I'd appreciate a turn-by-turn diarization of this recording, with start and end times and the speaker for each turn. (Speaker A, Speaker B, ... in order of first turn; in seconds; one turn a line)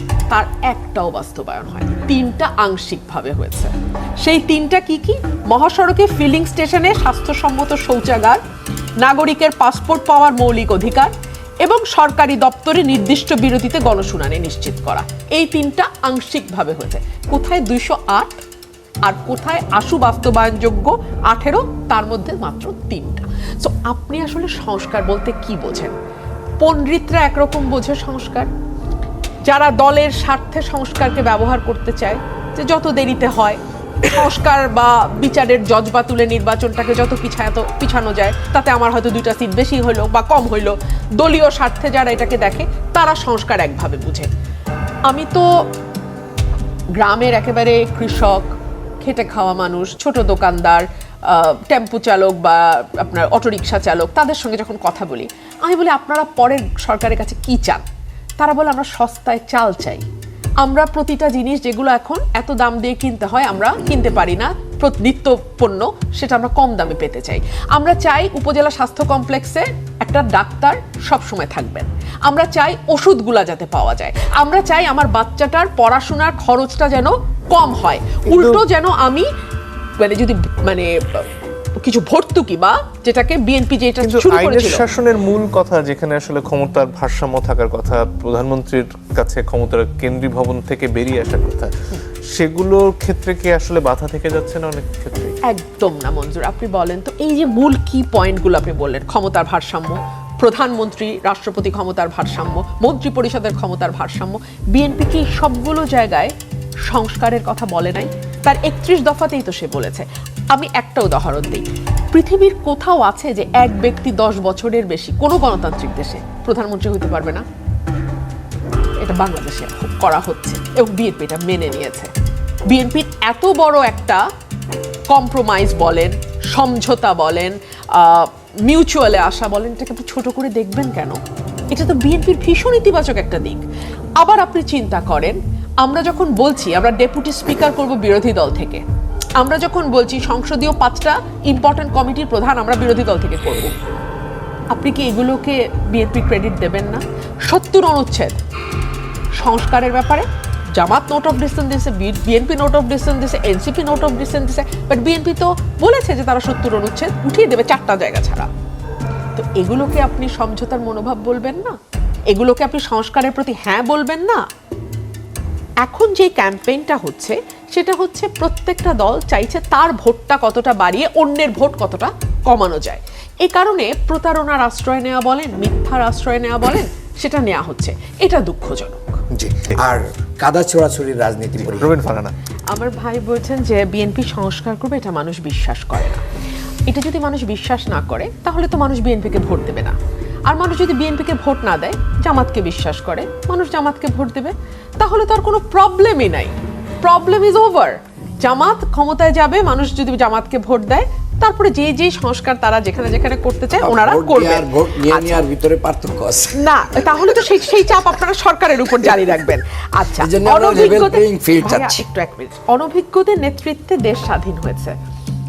Speaker A: 0.3-8.4
Speaker A: 9.0-11.1
Speaker A: 11.6-18.4
Speaker A: 19.0-25.9
Speaker A: 26.6-28.5
Speaker A: 29.4-44.3
Speaker A: 45.1-45.5
Speaker A: 47.0-48.5
Speaker A: 49.0-57.8
Speaker A: 58.4-60.0
Speaker A: 60.6-79.3
Speaker B: 78.3-78.6
Speaker A: 80.0-84.8
Speaker B: 84.0-91.7
Speaker B: 92.3-95.3
Speaker A: 95.5-106.3
Speaker A: 106.9-117.4
Speaker A: 119.0-122.1
Speaker A: 122.7-124.2
Speaker A: 125.1-131.2
Speaker A: 131.7-133.6
Speaker A: 134.2-138.8
Speaker A: 139.4-143.7
Speaker A: 144.7-148.3
Speaker A: 149.4-150.2
Speaker A: 150.8-158.5
Speaker A: 159.3-161.8
Speaker A: 162.3-164.4
Speaker A: 165.8-179.2
Speaker C: 179.8-181.9
Speaker B: 181.6-182.3
Speaker A: 182.7-186.2
Speaker A: 186.9-189.9
Speaker A: 190.5-205.4
Speaker C: 203.7-206.7
Speaker A: 206.6-214.9
Speaker C: 210.1-212.0